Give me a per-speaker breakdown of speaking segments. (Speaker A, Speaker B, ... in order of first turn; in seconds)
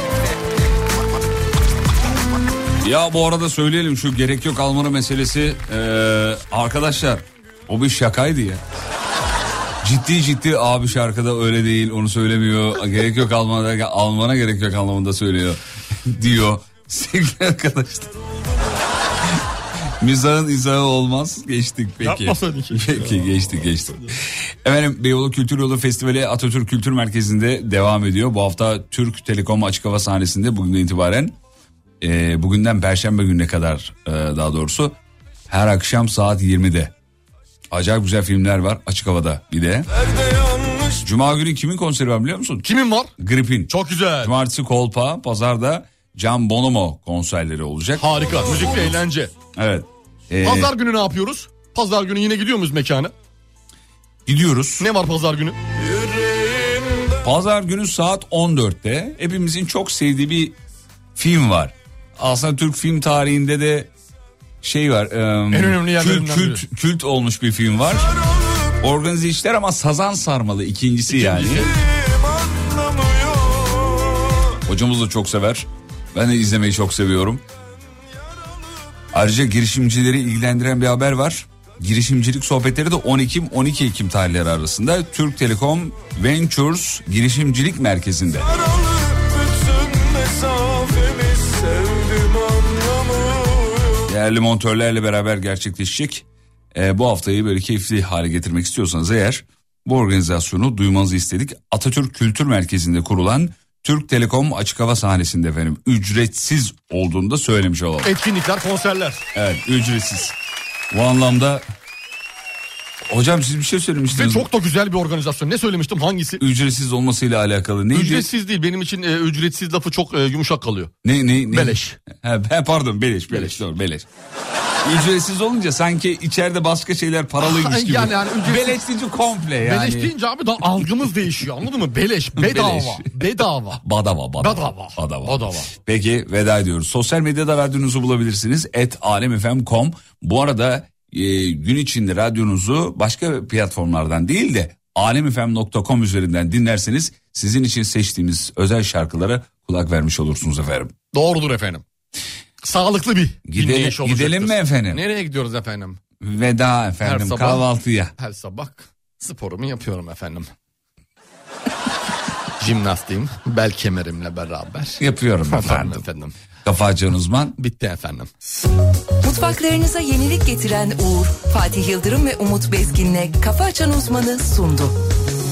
Speaker A: 2.8-8.6, 9.8-18.1, 20.0-31.4, 32.0-36.9, 37.7-39.9, 41.0-48.1, 49.5-50.7, 54.2-54.9, 57.2-60.6, 61.1-63.9, 64.6-68.1, 68.8-71.7, 74.7-77.4, 79.1-88.5, 94.1-108.1, 109.3-110.3, 110.9-111.6, 113.1-114.5, 116.4-118.3, 121.0-124.0, 124.8-130.1, 132.3-150.9, 153.5-155.0, 156.2-158.1, 165.0-166.0, 166.6-167.6
Speaker B: 18.4-18.8, 39.9-41.0, 55.8-57.2, 68.2-68.7, 71.7-74.6, 88.4-94.1
Speaker C: 22.0-24.1, 42.6-43.1, 43.7-44.3, 48.0-49.3, 50.4-53.1, 54.8-55.6, 65.5-66.6, 71.1-71.7, 108.0-109.2, 114.1-116.4, 117.9-120.9, 121.5-122.0, 123.3-123.6, 127.4-128.8, 129.6-133.8, 134.4-135.7, 151.1-151.8, 152.6-156.0, 157.0-157.6, 158.2-160.5, 162.6-166.3, 167.6-168.3
Speaker D: 169.2-174.9